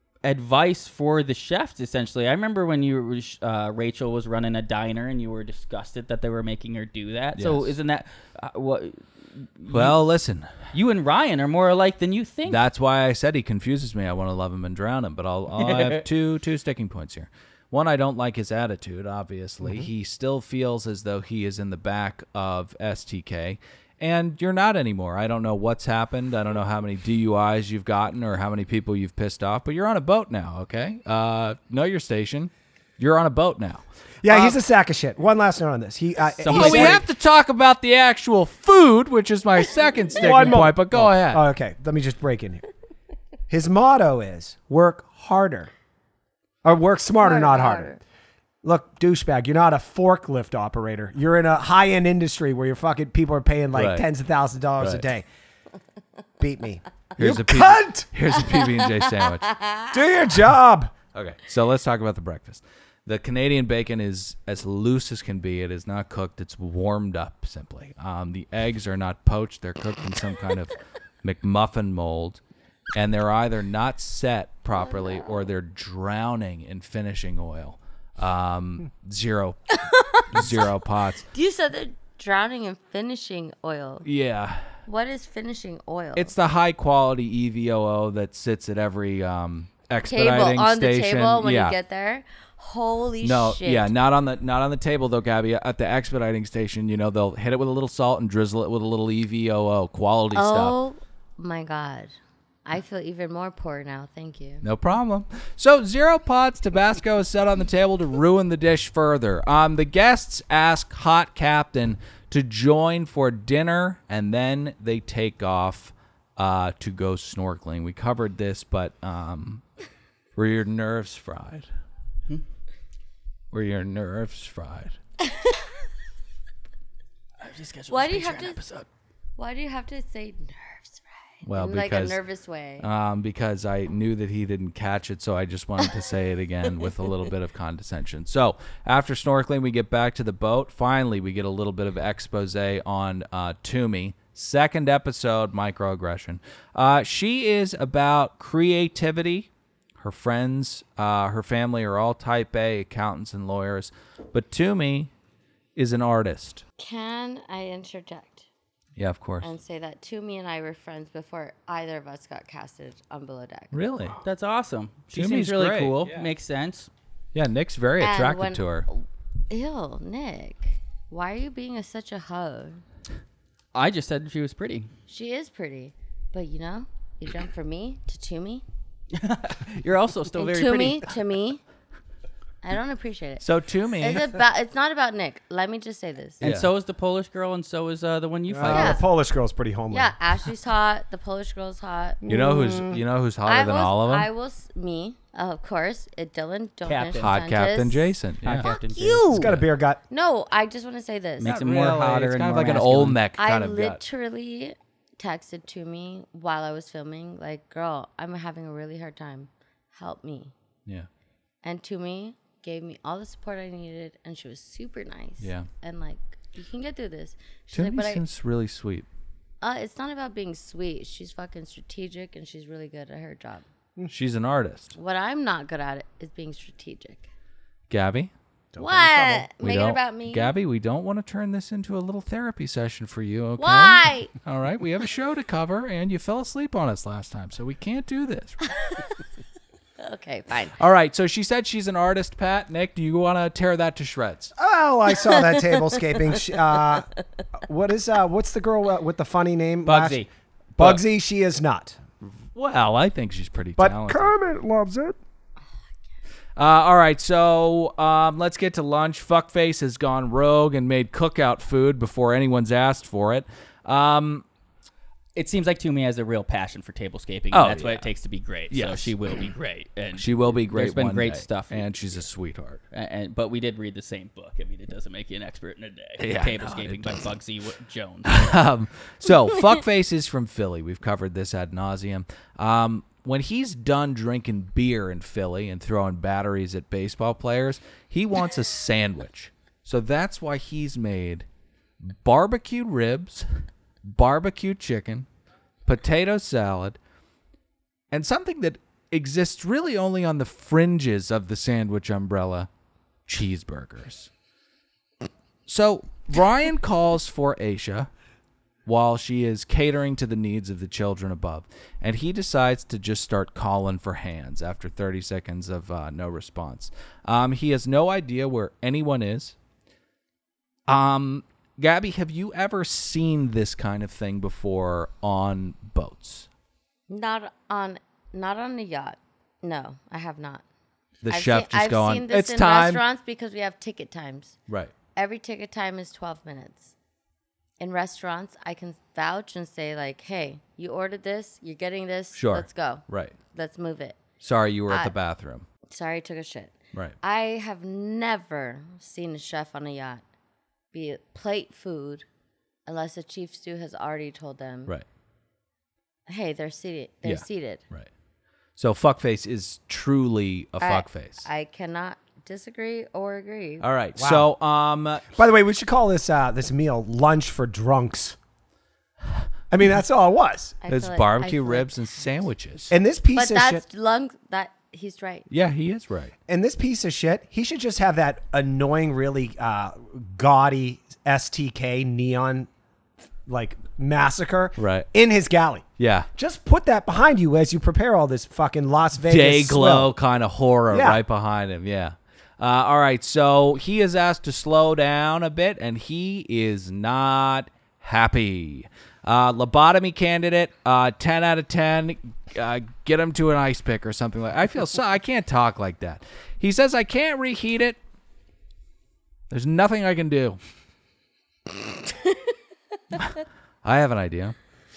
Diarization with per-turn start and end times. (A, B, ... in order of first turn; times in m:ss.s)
0:00.2-0:10.0 A
0:07.4-0:07.7 B
0:09.7-0:10.6 B
0:10.7-0:12.6 A
0:12.5-0:34.6 B
0:15.6-0:16.0 A
0:34.2-0:37.0 C
0:36.4-0:37.0 A
0:36.5-0:41.4 B
0:40.1-0:42.6 C
0:43.5-0:45.7 C
0:46.6-0:48.0 C
0:47.2-0:48.0 D
0:48.6-0:55.2 C
0:53.7-0:54.0 B
0:54.8-0:55.1 B
0:56.4-0:58.1 C
0:57.2-0:59.5 B
0:58.3-1:00.0 D
0:59.9-1:00.9 C
1:01.1-1:12.4 B
1:12.9-1:19.6 B
1:14.7-1:15.5 D
1:19.8-1:20.7 D
1:20.3-1:21.3 B
1:21.3-1:24.0 D
1:24.0-1:24.7 B
1:24.8-1:26.3 D
1:26.1-1:31.8 B
1:30.0-1:33.9 D
1:33.2-1:40.8 B
1:40.3-1:42.1 D
1:42.6-1:44.6 D
1:44.6-1:59.6 B
2:00.4-2:01.7 B
2:03.5-2:05.0 B
2:05.2-2:05.7 D
2:07.4-2:08.9 A
2:07.9-2:08.6 D
2:09.4-2:12.8 D
2:11.4-2:12.2 B
2:12.8-2:29.5 B
2:30.0-2:35.1 B
2:35.8-2:36.6 B
2:36.8-2:38.4 D
2:39.0-2:39.5 B
2:39.4-2:43.7 D
2:43.7-2:44.2 B
2:44.2-2:46.9 A
2:45.1-2:46.3 B
2:47.3-2:48.9 B
2:48.0-2:52.8 D
2:53.7-2:54.9 A
2:55.1-2:58.6 D
2:59.1-3:01.1 A
3:00.3-3:01.6 D
3:02.6-3:03.4 D
3:03.4-3:04.3 B
3:04.0-3:06.4 D
3:06.4-3:09.0 A
3:06.4-3:06.7 B
3:08.5-3:10.1 C
3:08.6-3:08.9 B
3:08.7-3:09.0 D
3:09.9-3:12.2 D
3:12.2-3:13.0 C
3:12.3-3:14.3 B
3:13.4-3:19.5 D
3:16.8-3:17.3 A
3:17.2-3:18.7 B
3:18.4-3:19.6 A
3:19.3-3:20.0 C
3:20.1-3:21.5 D
3:21.4-3:23.2 A
3:21.4-3:24.0 B
3:23.4-3:30.5 D
3:31.6-3:38.2 D
3:35.4-3:35.7 B
3:37.7-3:39.1 B
3:39.6-3:43.6 D
3:44.1-3:45.0 B
3:45.0-3:47.3 D
3:47.9-3:48.3 B
3:48.7-3:49.5 C
3:48.8-3:50.5 D
3:49.6-3:58.6 B
3:53.6-3:54.3 D
3:58.7-3:59.2 D
4:00.0-4:00.8 D
4:00.8-4:04.5 B
4:04.6-4:07.1 C
4:05.2-4:07.0 D
4:07.6-4:10.2 C
4:09.8-4:10.3 A
4:10.8-4:12.0 C
4:12.4-4:14.3 B
4:13.8-4:15.2 C
4:16.6-4:24.4 B
4:25.3-4:31.8 A
4:27.5-4:28.1 B
4:28.7-4:29.1 B
4:30.2-4:32.8 B
4:32.9-4:38.5 A
4:36.2-4:37.3 B
4:38.2-4:51.4 B
4:52.0-4:55.2 B
4:55.8-4:57.0 B
4:58.1-5:02.7 B
5:03.3-5:04.3 B
5:05.7-5:08.1 B
5:08.8-5:19.5 B
5:20.9-5:26.5 B
5:27.1-5:30.6 D
5:31.2-5:33.0 B
5:31.3-5:34.6 D
5:35.1-5:36.9 D
5:37.8-5:44.2 D
5:42.3-5:43.3 B
5:44.4-5:45.6 B
5:45.9-5:50.2 D
5:50.9-5:52.2 D
5:52.8-5:54.9 D
5:56.3-5:57.8 D
5:57.2-5:58.1 B
5:58.8-6:01.5 B
6:00.8-6:03.9 D
6:03.8-6:05.3 B
6:04.2-6:04.5 C
6:05.3-6:08.4 C
6:09.7-6:10.8 C
6:10.8-6:12.0 D
6:10.9-6:12.9 B
6:12.9-6:13.8 C
6:13.3-6:15.5 D
6:15.5-6:16.3 B
6:16.5-6:22.7 C
6:23.4-6:30.1 C
6:24.8-6:25.1 B
6:26.0-6:26.3 B
6:29.3-6:48.0 B
6:30.9-6:31.2 C
6:49.5-6:50.6 B
6:53.8-6:54.6 B